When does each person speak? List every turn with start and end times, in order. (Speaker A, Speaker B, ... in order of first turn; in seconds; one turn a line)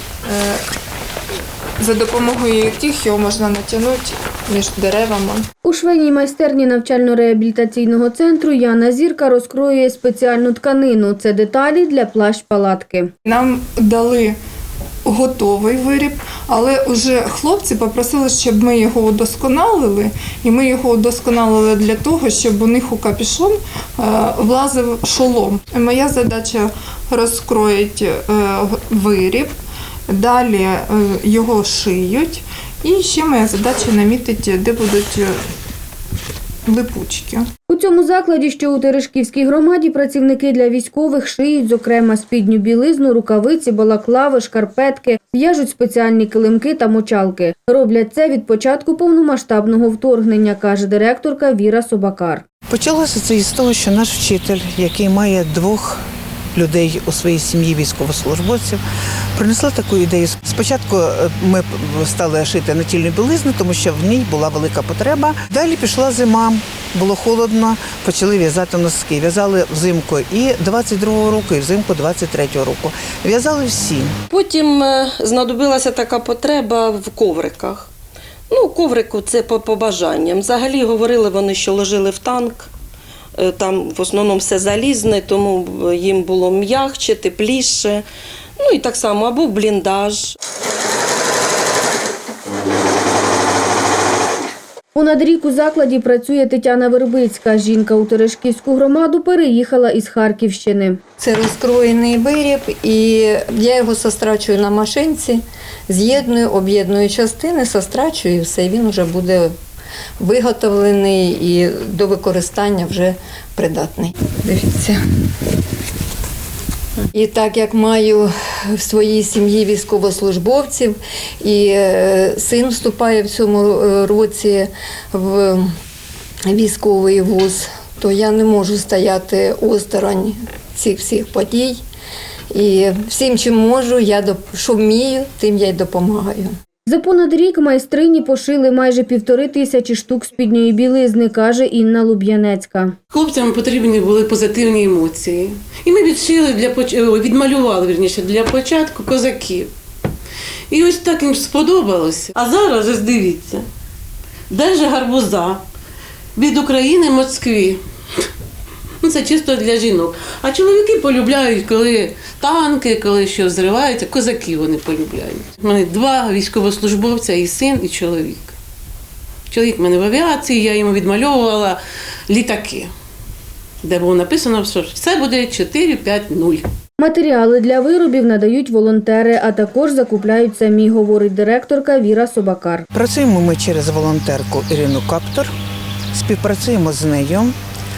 Speaker A: 0.2-0.6
Speaker A: 1.8-5.5
Speaker B: 5.6-13.1
Speaker A: 13.2-14.4
Speaker A: 15.1-29.5
Speaker A: 30.1-35.4
Speaker A: 36.7-37.5
Speaker B: 37.7-52.4
Speaker C: 52.7-56.0
Speaker C: 56.5-58.8
Speaker C: 59.4-74.2
Speaker D: 74.3-77.9
Speaker D: 78.5-82.7
Speaker D: 83.4-88.0
Speaker D: 88.6-90.4
Speaker B: 95.0-101.0
Speaker E: 101.2-109.5
Speaker E: 110.2-115.0
Speaker E: 117.1-125.7
Speaker E: 126.5-131.8
Speaker E: 132.5-136.5
Speaker B: 136.9-142.9
Speaker F: 143.1-149.7
Speaker F: 150.7-153.7
Speaker F: 154.5-155.6
Speaker F: 156.4-158.3
Speaker F: 159.0-168.6
Speaker F: 169.5-172.9
Speaker F: 173.8-176.7
Speaker B: 177.0-182.9
Speaker C: 182.9-185.5
Speaker C: 186.1-187.6